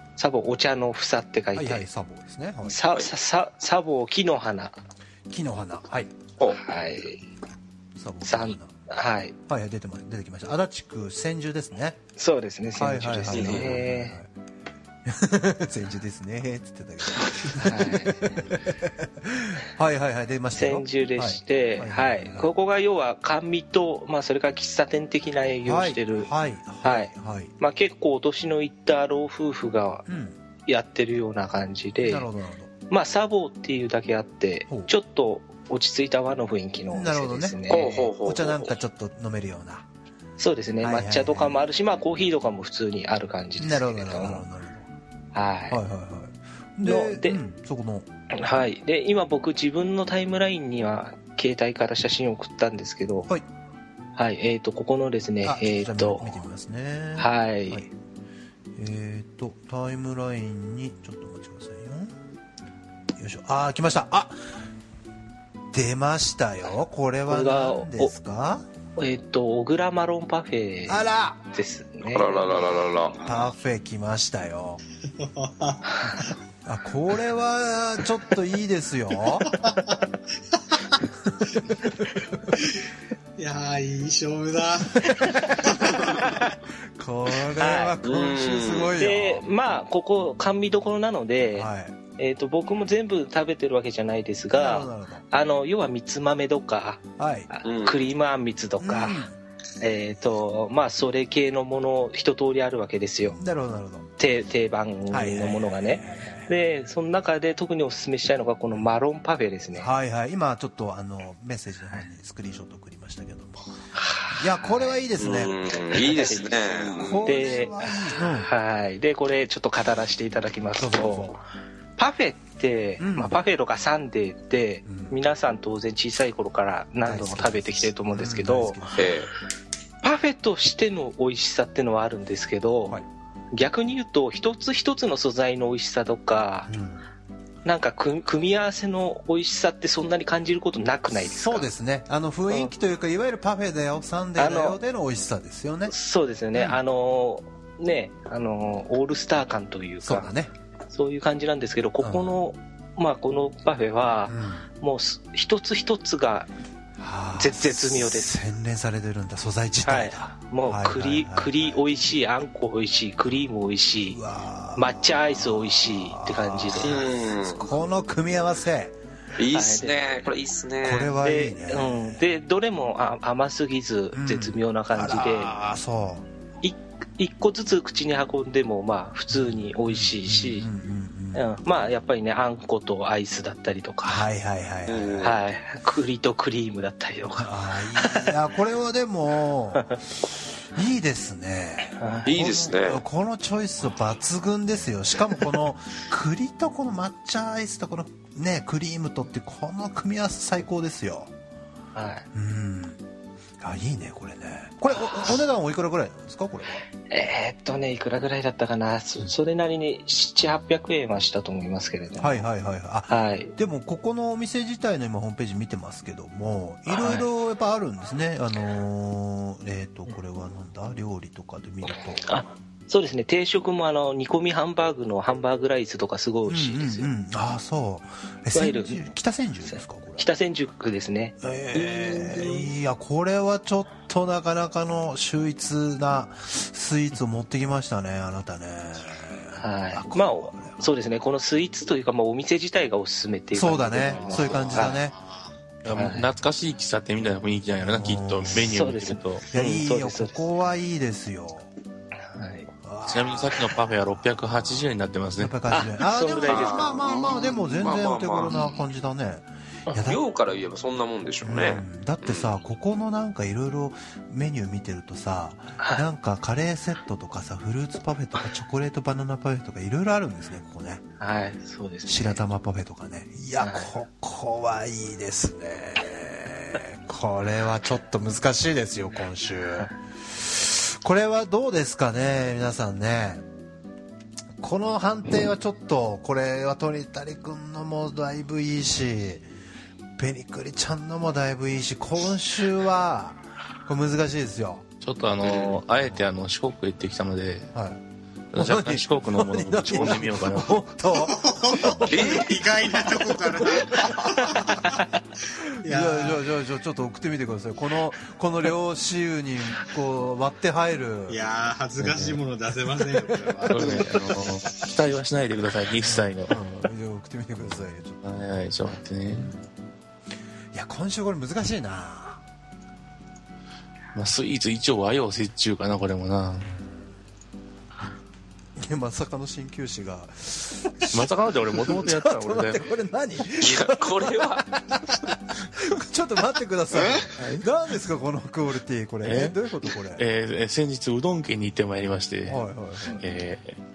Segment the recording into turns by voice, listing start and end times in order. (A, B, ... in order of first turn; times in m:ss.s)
0:00.2-0:01.9 A
0:01.5-0:02.8 B
0:02.6-0:04.8 A
0:05.3-0:06.1 B
0:06.6-0:07.2 A
0:08.0-0:08.7 B
0:08.2-0:09.3 A
0:09.5-0:12.0 B
0:12.2-0:14.2 A
0:12.8-0:14.3 B
0:13.3-0:13.8 C
0:15.0-0:22.5 B
0:17.6-0:18.6 A
0:20.5-0:26.3 A
0:25.6-0:27.5 B
0:26.8-0:30.0 A
0:30.1-0:30.4 B
0:30.6-0:32.3 A
0:32.0-0:32.7 B
0:32.9-0:38.1 A
0:36.9-0:37.6 B
0:37.7-0:38.7 C
0:38.2-0:39.9 B
0:40.4-0:44.4 A
0:40.8-0:41.6 B
0:43.6-0:44.9 B
0:45.3-0:45.8 A
0:45.7-0:48.1 B
0:46.8-0:47.4 A
0:48.4-0:53.3 A
0:54.2-0:56.3 A
0:55.4-0:57.9 B
0:57.2-0:57.8 A
0:58.8-1:02.2 B
1:03.2-1:04.3 B
1:05.7-1:08.6 B
1:07.3-1:08.1 A
1:09.0-1:12.6 A
1:10.9-1:11.4 B
1:12.1-1:13.2 C
1:13.2-1:14.8 B
1:15.2-1:16.3 D
1:16.6-1:19.6 B
1:19.5-1:19.9 D
1:21.4-1:22.3 B
1:23.4-1:26.1 D
1:25.1-1:26.4 A
1:27.0-1:29.4 B
1:27.6-1:28.0 A
1:28.0-1:28.9 C
1:28.9-1:39.2 A
1:31.5-1:32.0 B
1:34.5-1:35.2 B
1:37.2-1:37.5 B
1:37.6-1:38.0 C
1:38.8-1:39.4 B
1:39.8-1:43.4 A
1:43.2-1:44.1 B
1:44.2-1:49.9 A
1:45.1-1:46.6 B
1:49.7-1:53.8 B
1:54.0-1:55.0 A
1:54.3-1:55.6 B
1:55.2-1:57.3 C
1:55.9-2:01.4 A
1:56.9-1:58.5 B
2:00.7-2:01.4 B
2:02.0-2:09.0 A
2:03.0-2:03.4 B
2:04.8-2:05.2 B
2:07.0-2:09.2 B
2:09.0-2:09.3 C
2:10.0-2:13.0 A
2:13.5-2:16.7 A
2:16.7-2:17.0 B
2:17.6-2:21.7 A
2:21.2-2:25.9 B
2:24.4-2:24.8 A
2:25.9-2:30.3 A
2:26.5-2:26.8 B
2:30.0-2:30.5 B
2:30.9-2:36.5 A
2:32.0-2:32.4 B
2:34.2-2:34.7 B
2:37.0-2:42.1 B
2:37.4-2:38.4 A
2:39.8-2:44.2 A
2:44.0-2:48.9 B
2:44.7-2:47.0 A
2:46.8-2:47.6 C
2:49.4-2:51.1 C
2:49.5-2:50.3 A
2:50.8-2:52.2 B
2:51.2-2:55.5 A
2:54.1-2:56.2 B
2:56.6-3:00.7 A
2:59.3-3:01.5 B
3:01.3-3:04.2 A
3:04.0-3:05.4 B
3:04.9-3:05.4 C
3:05.2-3:08.3 A
3:07.4-3:10.0 B
3:10.7-3:21.3 B
3:12.0-3:12.3 A
3:12.2-3:13.0 C
3:21.9-3:22.3 A
3:22.3-3:23.0 B
3:23.6-3:26.8 B
3:25.0-3:25.4 A
3:27.1-3:32.4 A
3:32.2-3:42.4 B
3:33.1-3:33.5 A
3:36.9-3:37.3 A
3:42.2-3:47.1 A
3:46.5-3:50.3 B
3:48.5-3:49.1 A
3:49.7-3:51.4 A
3:51.4-4:00.9 B
3:59.6-4:05.0 A
4:03.5-4:05.2 B
4:04.3-4:05.5 D
4:05.8-4:09.4 E
4:05.9-4:06.3 A
4:07.8-4:08.7 B
4:08.7-4:10.4 A
4:09.5-4:11.7 B
4:12.3-4:12.7 A
4:12.8-4:14.4 B
4:13.1-4:15.5 E
4:15.4-4:20.2 B
4:15.7-4:17.0 A
4:16.4-4:18.6 C
4:20.0-4:22.5 C
4:21.4-4:31.0 B
4:25.8-4:26.0 A
4:31.2-4:32.4 A
4:32.0-4:43.4 B
4:33.6-4:33.9 A
4:44.6-4:49.4 B
4:50.2-4:54.8 B
4:55.0-4:57.7 E
4:55.4-4:55.8 C
4:57.7-4:58.0 B
4:58.5-5:00.8 E
4:58.5-5:02.2 B
5:01.2-5:05.0 D
5:02.0-5:02.5 C
5:05.8-5:06.4 D
5:05.8-5:11.4 B
5:11.3-5:14.3 D
5:12.0-5:12.4 E
5:13.7-5:16.6 E
5:16.0-5:18.7 B
5:17.6-5:19.5 E
5:19.2-5:19.6 B
5:20.7-5:22.4 B
5:24.1-5:26.7 E
5:26.6-5:27.0 B
5:28.8-5:40.2 B
5:31.1-5:32.8 E
5:33.6-5:34.6 C
5:39.2-5:39.6 E
5:40.2-5:42.6 E
5:42.4-5:43.2 B
5:43.1-5:43.8 E